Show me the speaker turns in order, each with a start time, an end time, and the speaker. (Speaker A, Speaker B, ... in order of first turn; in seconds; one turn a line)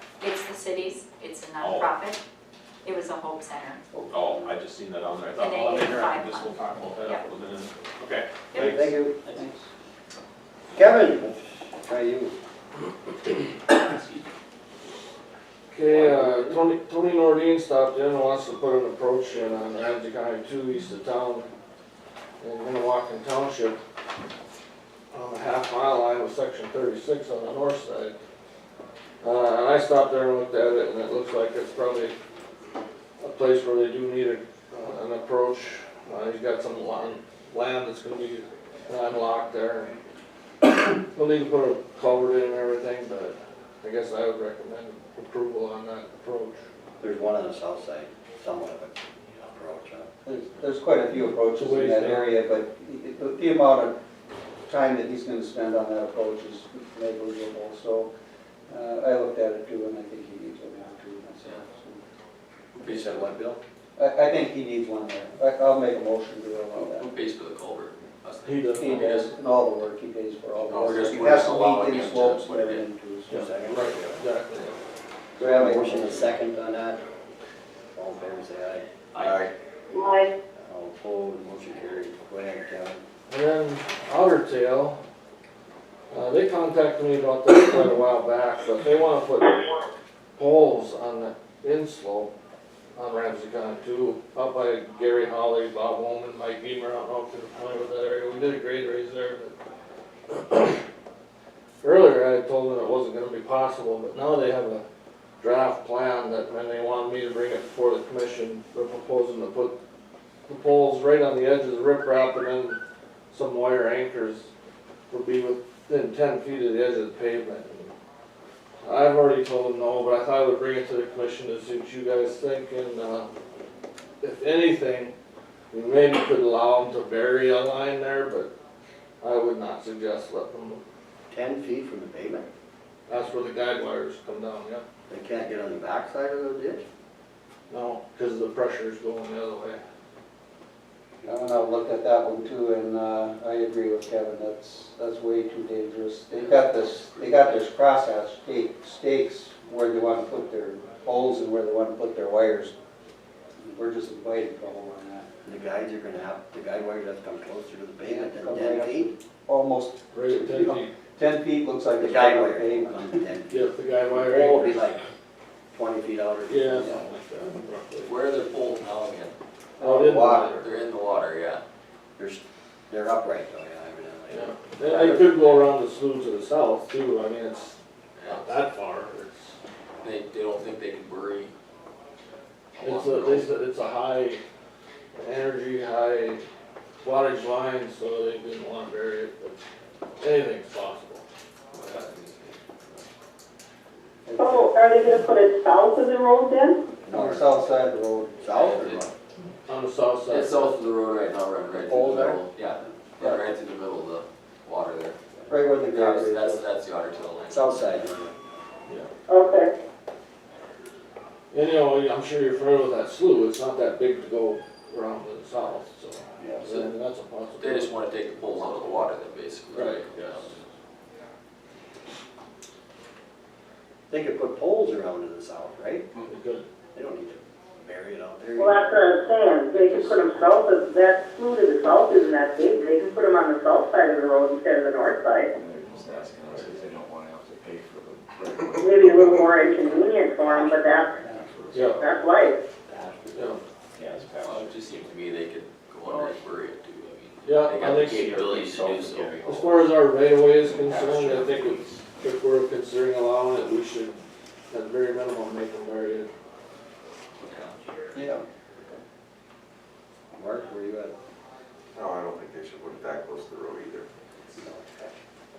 Speaker A: 0.2-2.2
Speaker B: 1.6-2.0
Speaker A: 2.8-3.9
Speaker C: 4.0-4.5
Speaker B: 4.1-8.9
Speaker A: 5.4-7.3
Speaker A: 8.5-8.8
Speaker C: 8.6-9.7
Speaker D: 8.6-9.0
Speaker D: 10.7-12.3
Speaker E: 15.7-21.4
Speaker C: 15.9-16.6
Speaker E: 22.4-23.8
Speaker E: 25.1-28.1
Speaker E: 29.2-32.1
Speaker E: 33.2-39.9
Speaker E: 41.0-46.6
Speaker D: 47.0-50.1
Speaker C: 50.2-54.0
Speaker E: 51.5-52.3
Speaker C: 54.6-58.1
Speaker C: 58.7-62.0
Speaker F: 62.8-63.4
Speaker D: 62.8-63.6
Speaker C: 64.0-67.1
Speaker F: 66.7-69.3
Speaker E: 68.4-69.0
Speaker C: 68.7-73.7
Speaker F: 70.7-72.8
Speaker D: 71.0-71.4
Speaker E: 73.3-74.8
Speaker D: 73.4-74.2
Speaker D: 75.4-77.0
Speaker C: 75.4-76.3
Speaker D: 77.9-78.8
Speaker F: 79.1-79.4
Speaker G: 79.2-79.5
Speaker H: 79.9-80.3
Speaker D: 80.5-83.0
Speaker E: 83.3-85.0
Speaker E: 86.1-89.8
Speaker E: 90.4-92.3
Speaker E: 93.0-99.5
Speaker E: 100.3-100.8
Speaker E: 101.8-104.8
Speaker E: 105.4-109.7
Speaker E: 110.5-112.8
Speaker E: 113.3-114.5
Speaker E: 115.1-117.9
Speaker E: 118.8-123.3
Speaker E: 124.2-125.1
Speaker E: 125.7-128.5
Speaker E: 129.2-130.8
Speaker D: 131.3-132.5
Speaker E: 133.1-134.8
Speaker D: 135.1-136.8
Speaker E: 137.7-139.8
Speaker C: 141.2-152.7
Speaker F: 146.4-147.5
Speaker C: 153.6-155.3
Speaker D: 155.4-159.1
Speaker C: 158.1-163.2
Speaker E: 160.1-160.9
Speaker D: 162.0-165.0
Speaker E: 163.5-164.8
Speaker D: 165.7-167.0
Speaker E: 166.5-168.1
Speaker C: 166.7-166.9
Speaker F: 168.0-169.3
Speaker C: 169.8-170.5
Speaker E: 169.8-170.7
Speaker F: 170.5-171.6
Speaker D: 172.2-175.1
Speaker E: 174.3-177.8
Speaker C: 175.0-175.4
Speaker F: 178.2-178.5
Speaker E: 178.3-179.4
Speaker F: 180.0-181.5
Speaker F: 182.8-183.5
Speaker E: 182.8-184.4
Speaker E: 185.2-186.4
Speaker E: 187.0-189.6
Speaker E: 190.2-191.2
Speaker F: 191.7-193.0
Speaker C: 194.2-194.7
Speaker H: 194.4-196.8
Speaker D: 197.1-197.5
Speaker C: 197.1-198.9
Speaker D: 198.4-199.1
Speaker F: 198.5-199.1
Speaker E: 199.7-200.7
Speaker F: 200.3-205.2
Speaker C: 201.8-202.4
Speaker C: 205.5-206.7
Speaker F: 205.9-208.1
Speaker D: 207.4-208.4
Speaker H: 209.3-209.7
Speaker E: 211.5-217.9
Speaker F: 216.6-216.9
Speaker F: 217.6-220.6
Speaker E: 219.7-220.5
Speaker D: 224.1-226.1
Speaker E: 226.2-226.6
Speaker D: 226.9-228.9
Speaker H: 228.6-235.5
Speaker D: 229.7-230.3
Speaker G: 235.6-239.4
Speaker H: 238.8-241.3
Speaker E: 241.7-242.0
Speaker H: 241.9-242.6
Speaker G: 242.9-243.3
Speaker G: 244.0-245.0
Speaker F: 244.4-249.9
Speaker E: 247.4-248.4
Speaker G: 248.2-249.4
Speaker E: 249.4-256.3
Speaker F: 250.6-251.8
Speaker F: 257.4-257.7
Speaker C: 258.1-258.4
Speaker D: 260.3-261.1
Speaker G: 261.9-264.1
Speaker D: 264.6-265.1